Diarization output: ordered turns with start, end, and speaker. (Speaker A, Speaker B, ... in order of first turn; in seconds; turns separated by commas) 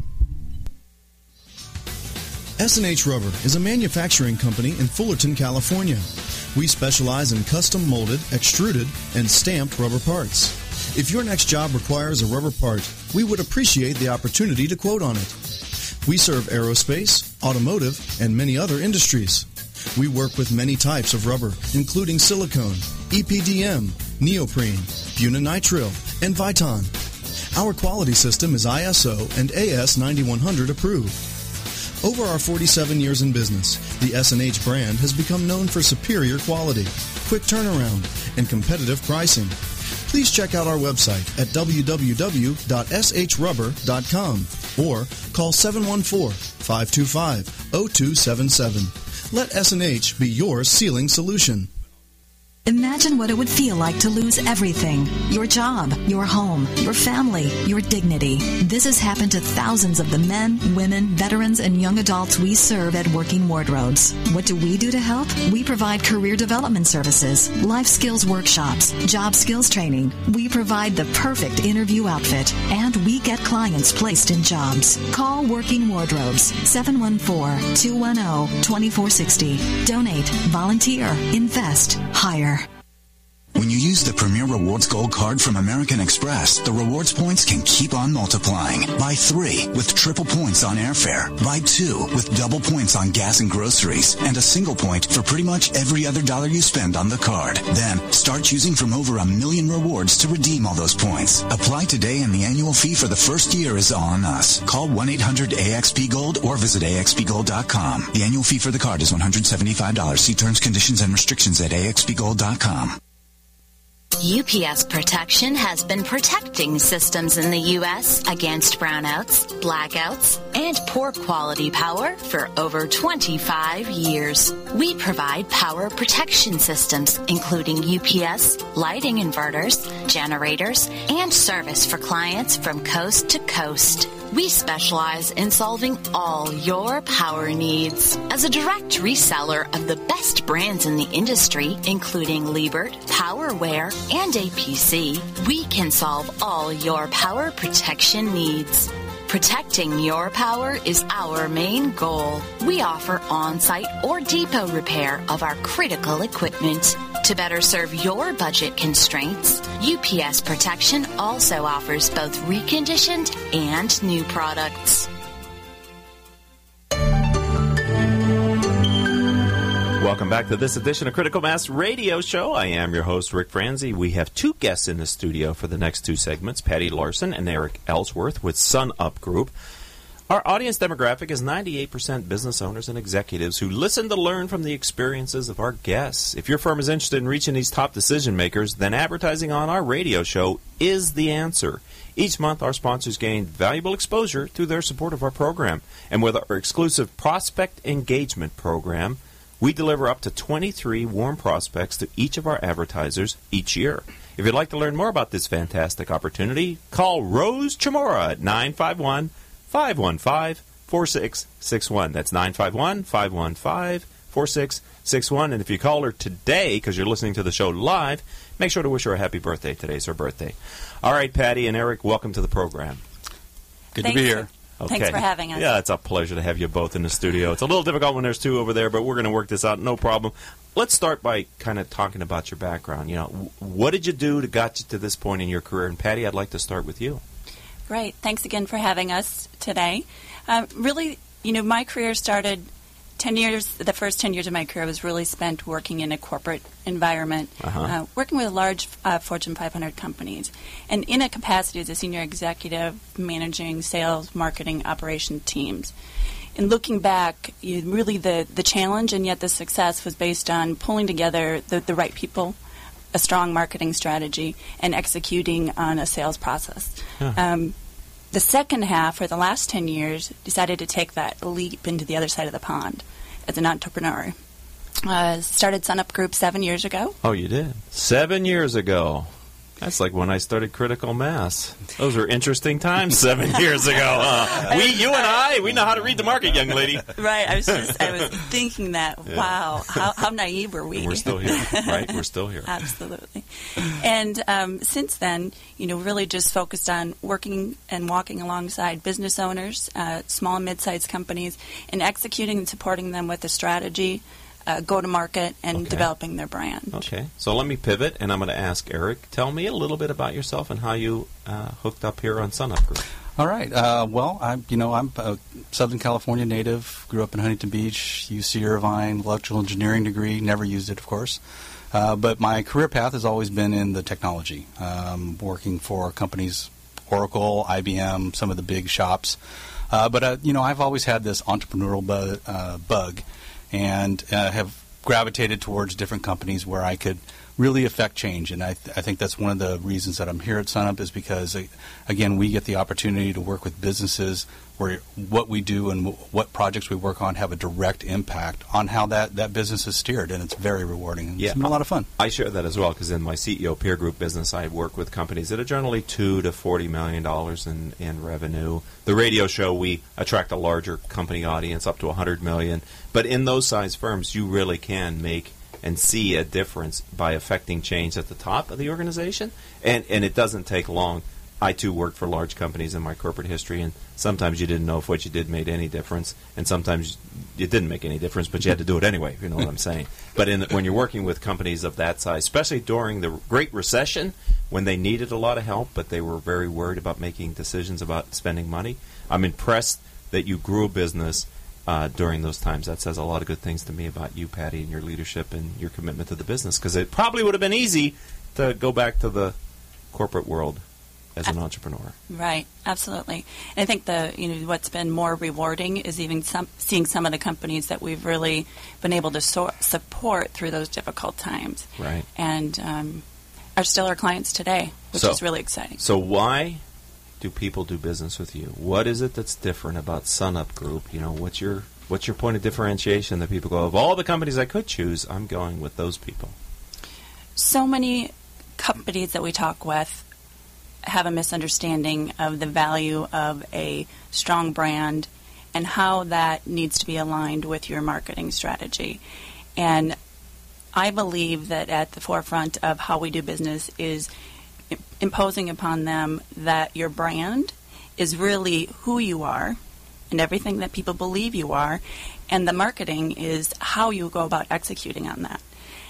Speaker A: 2.6-15.4, Speaker A: 16.0-26.9, Speaker A: 27.5-31.2, Speaker A: 32.0-39.6, Speaker A: 40.1-51.7, Speaker B: 52.6-82.7, Speaker C: 83.5-113.0, Speaker D: 114.2-165.1, Speaker E: 170.0-179.5, Speaker E: 180.3-223.0, Speaker F: 224.0-224.5, Speaker G: 224.0-225.8, Speaker E: 224.8-237.2, Speaker G: 237.9-255.9, Speaker E: 247.6-247.9, Speaker G: 256.6-262.6, Speaker G: 263.1-267.8, Speaker G: 268.3-274.4, Speaker G: 275.0-277.2, Speaker E: 277.2-287.1, Speaker G: 284.2-285.4, Speaker G: 287.1-307.0, Speaker E: 289.3-289.6, Speaker E: 290.9-292.7, Speaker E: 305.7-306.1, Speaker E: 306.9-313.0, Speaker F: 313.4-321.4, Speaker F: 321.9-329.4, Speaker F: 329.9-352.1, Speaker E: 351.4-399.6, Speaker E: 400.1-400.8, Speaker E: 401.4-402.2, Speaker G: 402.3-413.2, Speaker E: 412.0-412.3, Speaker G: 413.8-416.0, Speaker E: 415.1-415.4, Speaker E: 416.0-416.8, Speaker E: 417.4-426.6, Speaker G: 427.6-430.3, Speaker G: 431.1-439.2, Speaker G: 439.8-440.2, Speaker G: 440.9-444.3, Speaker G: 444.9-449.8, Speaker G: 450.3-455.6